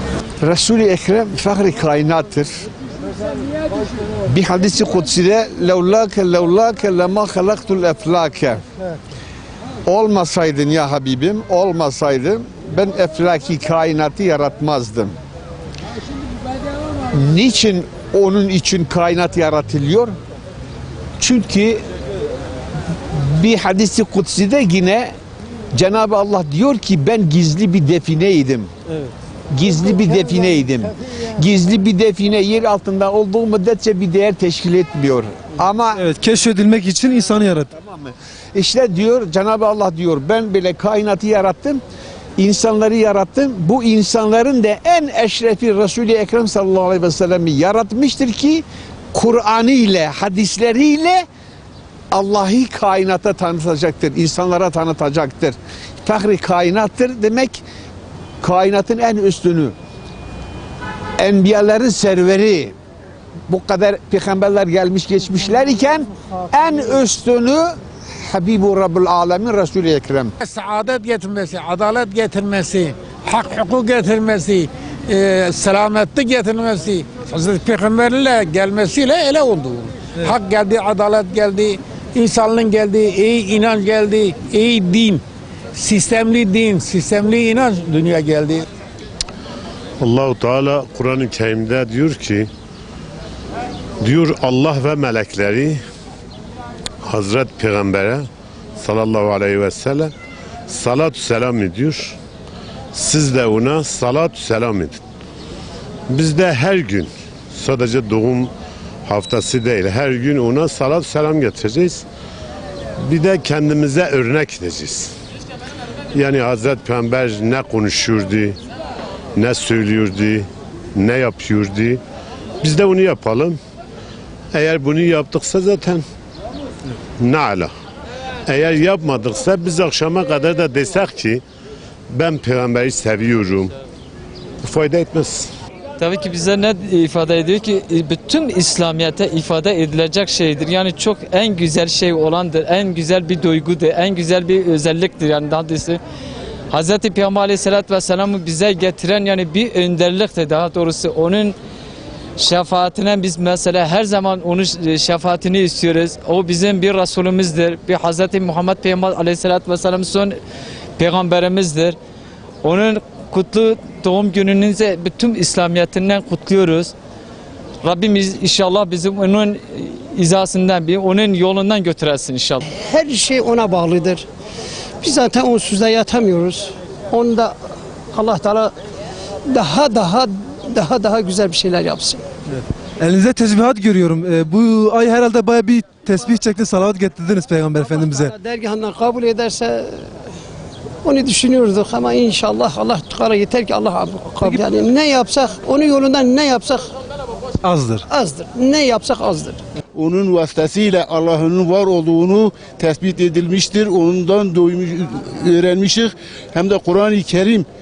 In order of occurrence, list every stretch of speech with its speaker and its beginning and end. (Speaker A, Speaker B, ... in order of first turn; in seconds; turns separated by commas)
Speaker A: 0.4-2.7, Speaker A: 4.3-8.6, Speaker A: 9.9-15.2, Speaker A: 17.1-20.2, Speaker A: 21.2-21.8, Speaker A: 23.1-25.1, Speaker A: 25.7-28.7, Speaker A: 29.5-36.0, Speaker B: 36.0-37.7, Speaker A: 37.8-41.8, Speaker A: 42.4-51.3, Speaker A: 52.1-57.6, Speaker A: 58.4-59.8, Speaker A: 61.2-62.8, Speaker A: 63.5-70.3, Speaker C: 70.4-85.2, Speaker C: 85.8-88.7, Speaker D: 90.0-92.5, Speaker D: 94.0-95.8, Speaker D: 97.0-100.1, Speaker D: 100.7-102.2, Speaker D: 102.9-105.0, Speaker D: 106.1-108.5, Speaker D: 109.0-112.0, Speaker D: 113.0-115.1, Speaker D: 116.1-118.6, Speaker D: 119.4-122.0, Speaker D: 122.6-123.6, Speaker D: 124.5-126.0, Speaker D: 127.2-127.7, Speaker D: 128.4-131.4, Speaker D: 132.1-133.7, Speaker D: 134.6-135.5, Speaker E: 136.0-146.0, Speaker E: 146.7-151.6, Speaker E: 152.4-160.4, Speaker E: 161.0-162.0, Speaker E: 162.6-166.9, Speaker E: 167.8-172.7, Speaker F: 172.8-174.2, Speaker F: 175.0-177.6, Speaker F: 178.1-178.7, Speaker F: 179.5-182.2, Speaker B: 182.5-188.3, Speaker F: 187.8-190.1, Speaker F: 191.0-196.9, Speaker B: 197.6-198.1, Speaker F: 198.1-199.6, Speaker G: 199.9-207.7